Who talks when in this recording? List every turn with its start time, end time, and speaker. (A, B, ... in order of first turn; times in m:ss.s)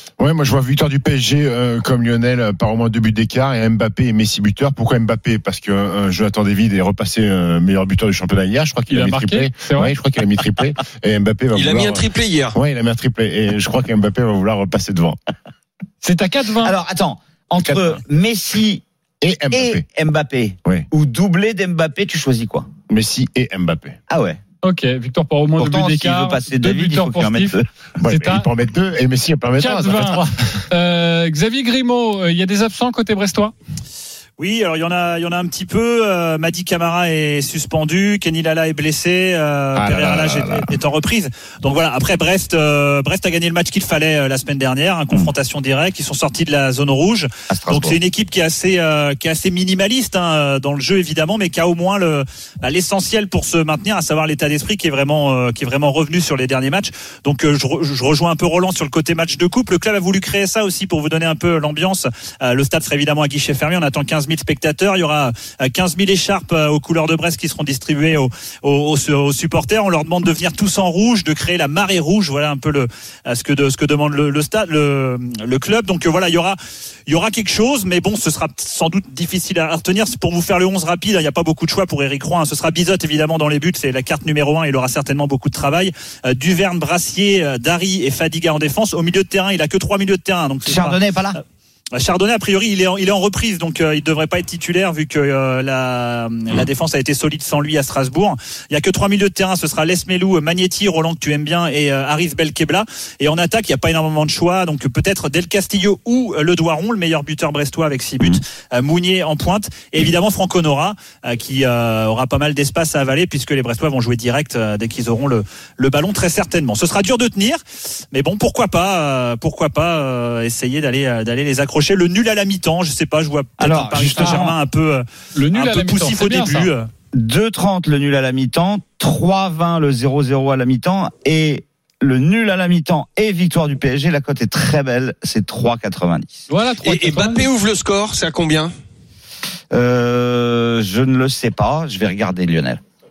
0:00.2-0:15.2 A
0:08.9-0:09.9 B
0:11.5-0:12.6 C
0:16.0-0:16.7 B
0:16.6-0:18.8 D
0:17.6-0:18.0 A
0:19.2-0:19.8 A
0:19.5-0:22.7 D
0:22.9-0:24.0 A
0:24.1-0:24.4 D
0:24.6-0:28.5 B
0:25.6-0:27.7 D
0:28.0-0:30.3 A
0:29.6-0:33.5 B
0:34.4-1:31.0 E
0:39.8-0:40.7 A
0:47.5-0:48.0 D
1:30.7-1:31.4 D
1:32.0-2:06.9 E
2:03.6-2:04.6 D
2:05.3-2:06.7 B
2:07.1-2:16.5 D
2:16.5-2:17.5 B
2:16.8-2:18.7 C
2:19.7-2:22.8 D